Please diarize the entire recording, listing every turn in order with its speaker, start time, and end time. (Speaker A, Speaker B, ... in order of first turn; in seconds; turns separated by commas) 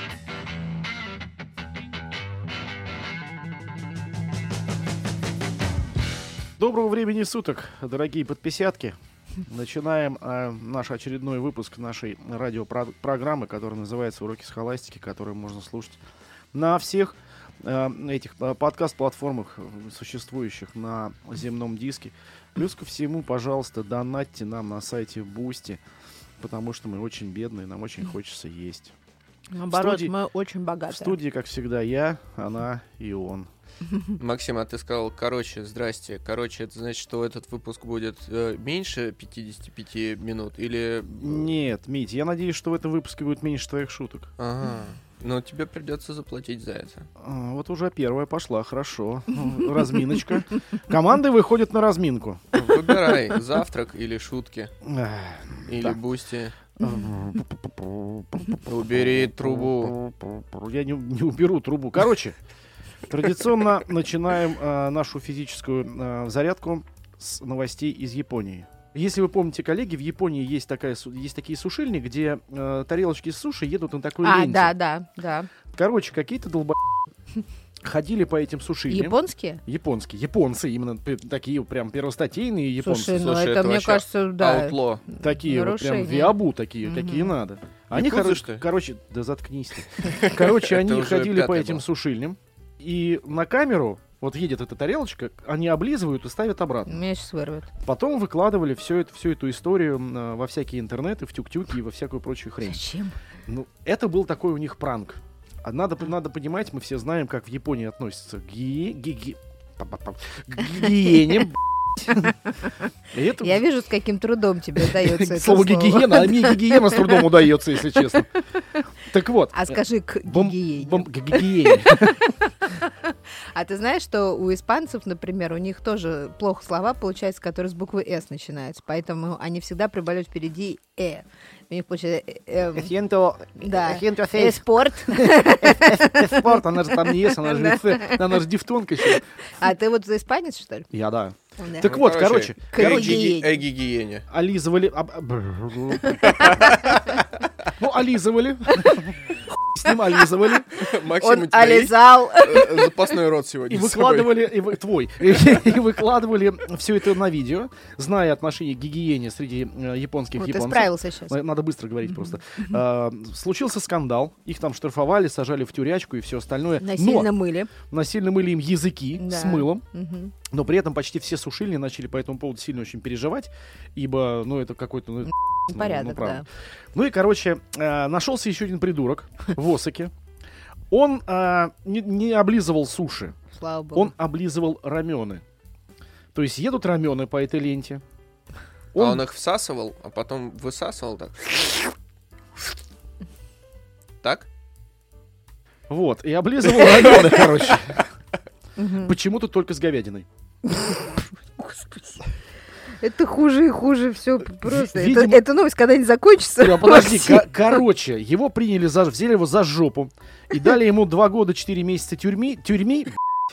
Speaker A: 6.6-16.0, Speaker A: 16.5-25.8, Speaker A: 26.4-28.9, Speaker B: 29.5-31.1, Speaker A: 29.7-30.1, Speaker A: 30.9-33.5, Speaker C: 34.2-41.5, Speaker A: 41.1-44.3, Speaker C: 44.4-47.1, Speaker A: 47.2-52.9, Speaker C: 52.5-54.7, Speaker A: 54.8-56.0, Speaker C: 55.7-56.5, Speaker A: 56.8-62.4, Speaker C: 58.6-59.9, Speaker A: 63.1-74.7, Speaker B: 74.2-75.5, Speaker A: 75.7-76.8, Speaker A: 77.8-83.3, Speaker B: 78.9-79.6, Speaker B: 82.8-87.3, Speaker C: 83.1-85.0, Speaker A: 85.2-97.0, Speaker C: 87.9-88.6, Speaker C: 90.0-91.8, Speaker B: 96.9-97.7, Speaker A: 97.8-102.8, Speaker B: 102.6-103.2, Speaker A: 103.5-112.3, Speaker B: 112.1-112.7, Speaker A: 113.1-113.6, Speaker B: 113.4-117.2, Speaker A: 114.8-118.3, Speaker A: 119.1-122.2, Speaker B: 119.5-132.9, Speaker A: 132.7-139.2, Speaker B: 133.6-136.5, Speaker B: 137.0-138.2, Speaker B: 139.0-140.9, Speaker A: 140.9-143.3, Speaker B: 141.6-141.9, Speaker C: 141.8-144.2, Speaker B: 142.7-143.6, Speaker A: 144.3-147.0, Speaker C: 146.2-146.9, Speaker A: 147.8-150.8, Speaker C: 150.7-154.3, Speaker B: 151.1-153.0, Speaker A: 153.7-167.3, Speaker B: 160.3-161.3, Speaker B: 166.8-167.7, Speaker A: 167.8-169.8, Speaker B: 169.2-170.3, Speaker A: 170.5-180.1, Speaker B: 175.7-176.4, Speaker A: 180.9-183.3, Speaker B: 183.5-184.1, Speaker A: 183.9-185.4, Speaker A: 186.3-188.0, Speaker A: 188.9-189.2, Speaker C: 189.0-191.8, Speaker C: 194.2-194.5, Speaker A: 195.9-198.1, Speaker B: 198.8-199.1, Speaker A: 199.0-200.3, Speaker B: 200.6-202.2, Speaker B: 203.0-207.5, Speaker A: 204.6-205.4, Speaker A: 206.6-213.2